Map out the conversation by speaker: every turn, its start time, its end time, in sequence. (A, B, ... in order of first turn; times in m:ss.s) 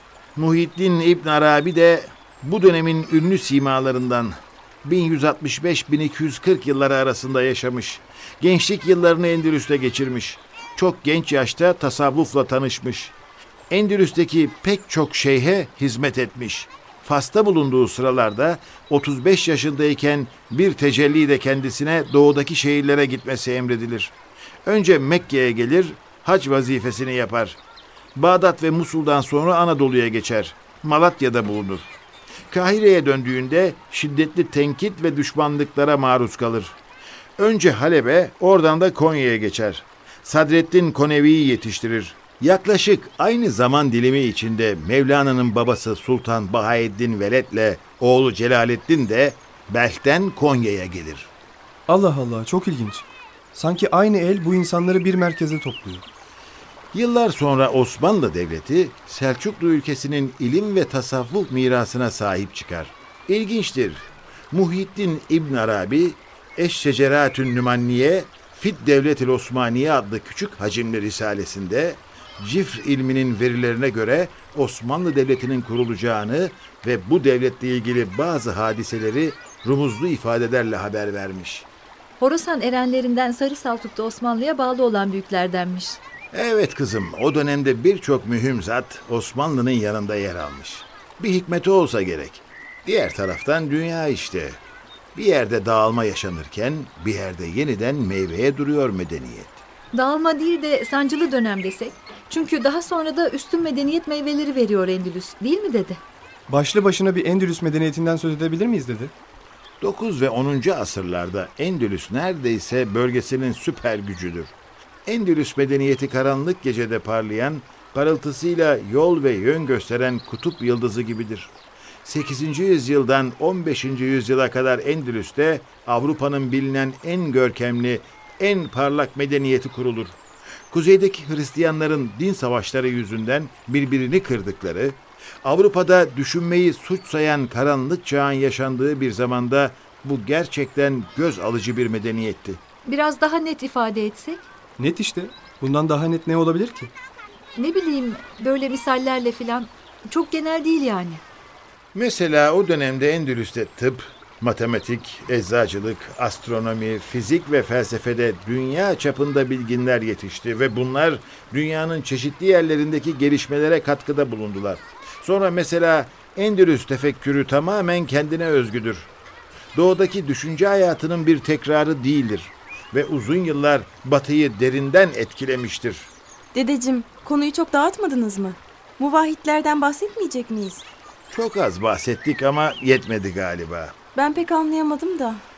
0:00.4-0:13.1 A
0:13.7-0:24.1 A
0:24.6-0:27.6 A
0:28.2-0:31.9 A
0:32.5-0:36.8 A
0:37.4-0:51.3 A
0:51.9-0:56.0 B
0:56.9-1:21.7 A
1:22.2-1:26.0 C
1:26.3-1:34.6 A
1:35.1-1:39.6 A
1:39.9-1:46.0 C
1:46.5-1:49.1 B
1:49.8-1:54.5 A
1:55.0-2:01.5 A
2:02.0-2:10.2 A
2:10.7-2:22.6 A
2:22.8-2:24.4 C
2:24.8-2:26.9 B
2:27.6-2:31.2 C
2:31.9-2:49.1 A
2:49.7-2:56.1 A
2:56.5-3:00.8 D
3:01.3-3:03.9 A
3:04.1-3:05.4 D